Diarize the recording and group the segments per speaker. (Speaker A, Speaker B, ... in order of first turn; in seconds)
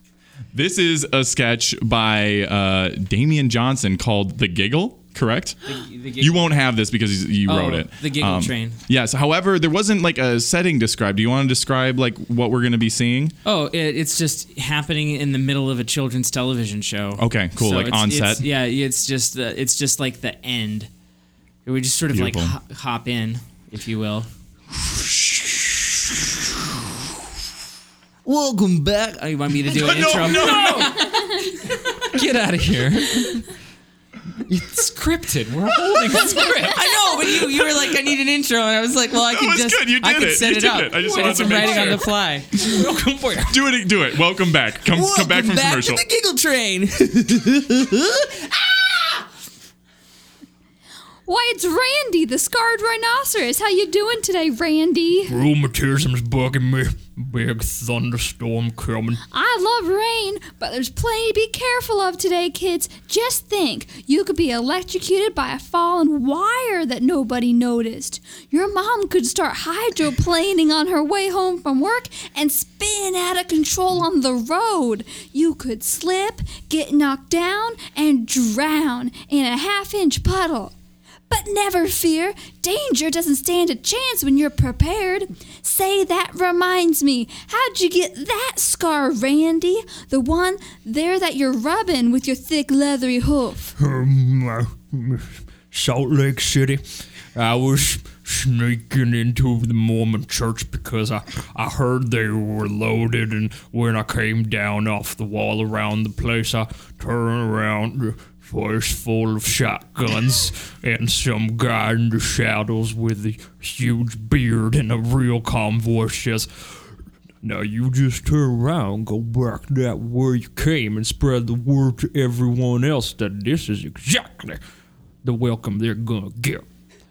Speaker A: 0.5-5.6, 6.2-13.3, 17.2-18.4, 22.1-22.5, 29.7-30.9, 39.3-42.1, 43.5-46.0
Speaker B: 5.6-6.5, 7.5-8.8, 13.4-20.9, 21.6-24.3, 28.2-31.5, 36.7-42.5, 44.9-49.2
Speaker C: 30.4-30.8, 32.1-33.4, 34.5-36.8
Speaker D: 41.2-41.9, 42.5-43.3, 55.3-59.2, 93.8-96.8, 97.3-116.5, 117.4-124.6, 125.2-126.6
Speaker E: 51.2-55.4, 59.3-80.7, 81.3-93.7